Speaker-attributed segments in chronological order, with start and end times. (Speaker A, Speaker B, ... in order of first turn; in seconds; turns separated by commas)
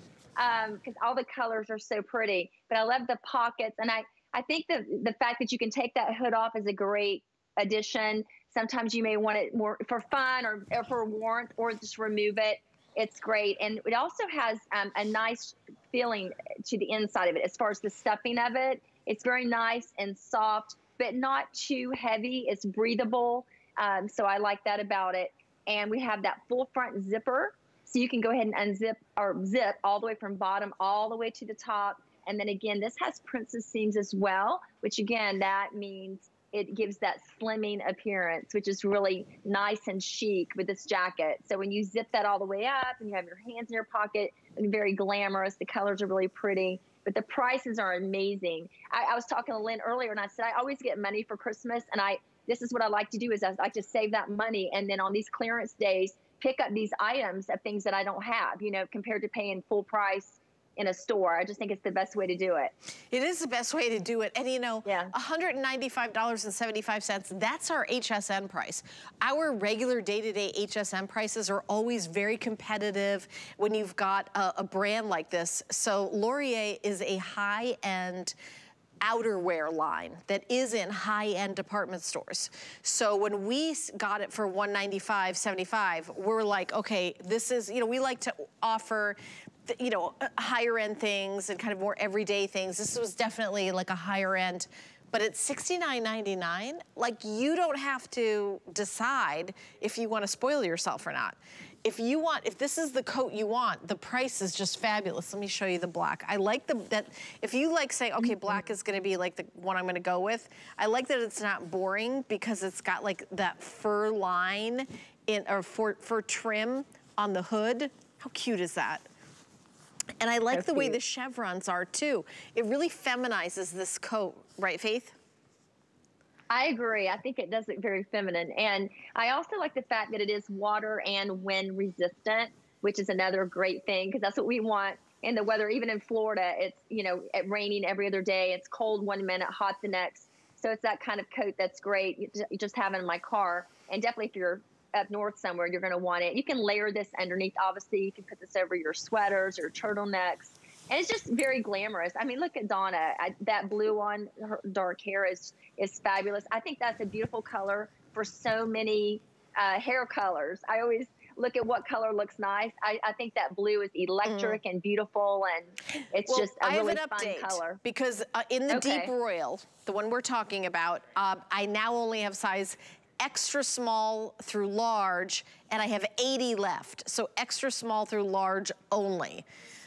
Speaker A: 0.4-62.7, Speaker B: 63.1-78.3, Speaker A: 64.8-65.1, Speaker B: 79.0-119.0, Speaker B: 120.2-125.1, Speaker A: 120.5-121.0, Speaker A: 126.5-167.8, Speaker B: 164.2-164.6, Speaker B: 166.3-179.4, Speaker A: 168.7-169.1